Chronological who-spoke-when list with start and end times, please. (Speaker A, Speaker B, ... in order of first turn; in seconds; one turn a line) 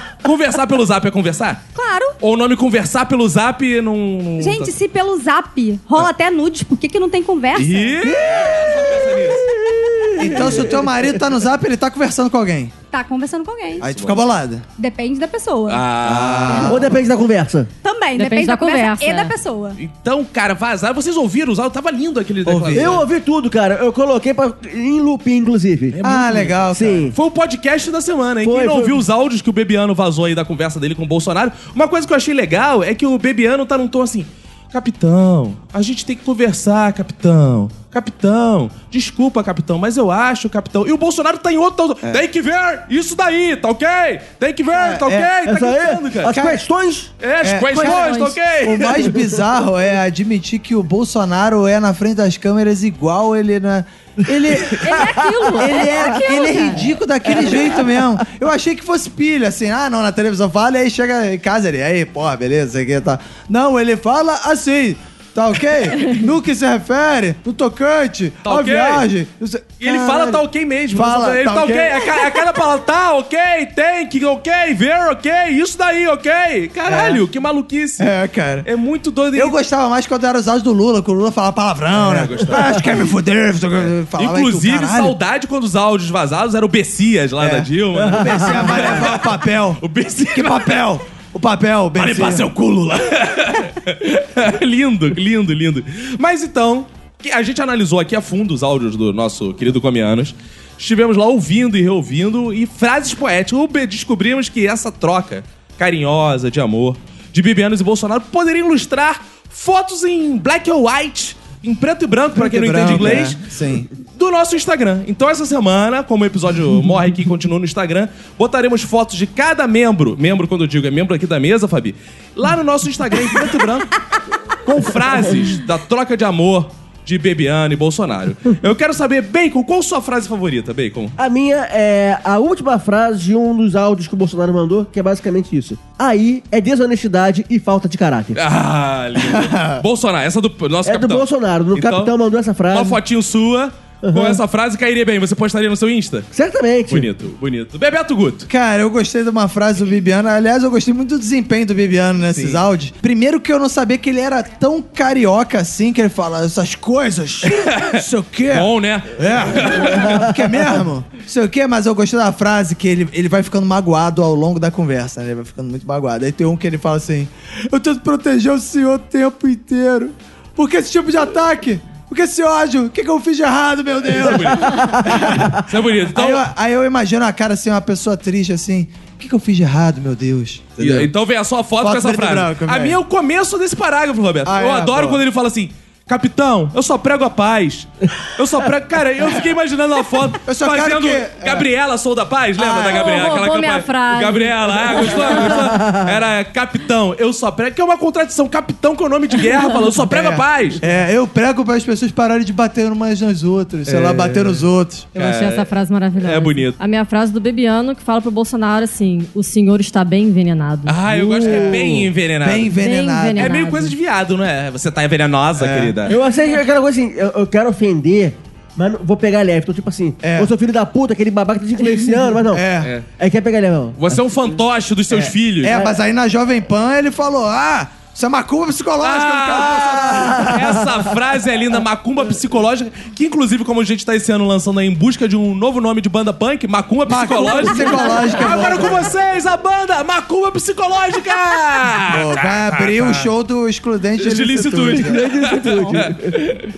Speaker A: 0.2-1.6
Speaker B: 1.7-2.2
Speaker A: 2.2-4.7
Speaker B: 4.4-8.0
Speaker A: 7.5-9.5
Speaker C: 8.0-11.1
Speaker D: 10.2-12.7
Speaker B: 12.9-13.9
Speaker D: 13.8-14.6
Speaker A: 13.8-14.2
Speaker B: 14.8-15.9
Speaker A: 15.7-16.8
Speaker D: 16.0-17.0
Speaker C: 16.6-17.7
Speaker B: 17.8-19.8
Speaker E: 18.1-19.3
Speaker A: 19.8-23.1
Speaker D: 22.4-23.0
Speaker C: 22.7-26.0
Speaker A: 25.9-26.6
Speaker D: 26.0-27.1
Speaker C: 26.7-27.2
Speaker A: 27.1-46.3
Speaker C: 28.4-29.0
Speaker D: 44.7-45.3
Speaker C: 45.5-47.1
Speaker D: 46.3-46.6
Speaker A: 47.2-49.1
Speaker D: 47.4-55.0
Speaker E: 47.7-48.4
Speaker C: 54.5-56.1
Speaker E: 54.8-56.9
Speaker B: 55.1-56.4
Speaker D: 55.6-72.4
Speaker C: 57.4-57.8
Speaker A: 68.5-69.0
Speaker A: 69.8-78.1
Speaker D: 76.9-77.2
Speaker D: 78.0-78.7
Speaker A: 78.6-79.6
Speaker D: 79.3-85.1
Speaker A: 81.9-82.9
Speaker A: 83.8-90.9
Speaker D: 87.4-92.5
Speaker A: 92.0-123.9
Speaker D: 112.4-113.9
Speaker A: 124.6-131.1
Speaker C: 131.2-138.4
Speaker A: 138.3-142.1
Speaker D: 139.2-139.8
Speaker C: 140.8-143.0
Speaker A: 142.7-146.3
Speaker C: 144.0-144.4
Speaker C: 146.3-147.1
Speaker A: 146.9-148.5
Speaker D: 148.5-181.1
Speaker A: 152.3-152.6
Speaker A: 157.5-160.3
Speaker A: 174.1-176.5
Speaker C: 174.6-175.4
Speaker A: 180.8-200.8
Speaker D: 181.8-183.0
Speaker D: 184.4-185.2
Speaker D: 190.4-191.7
Speaker D: 192.6-193.4
Speaker E: 192.8-195.8
Speaker C: 195.8-196.0
Speaker D: 200.1-205.1
Speaker A: 203.9-206.8
Speaker E: 205.1-211.0
Speaker A: 210.9-212.7
Speaker C: 211.1-212.1
Speaker D: 211.4-213.5
Speaker E: 212.8-213.9
Speaker A: 213.4-216.1
Speaker D: 215.6-215.9
Speaker C: 216.1-222.6
Speaker D: 220.2-220.5
Speaker D: 222.5-222.9
Speaker A: 222.8-223.1
Speaker C: 223.2-224.2
Speaker A: 224.0-225.8
Speaker D: 225.1-230.9
Speaker C: 225.7-225.9
Speaker A: 229.0-243.3
Speaker D: 237.1-239.1
Speaker B: 237.8-238.4
Speaker D: 242.1-245.2
Speaker A: 244.2-246.6
Speaker C: 244.9-246.5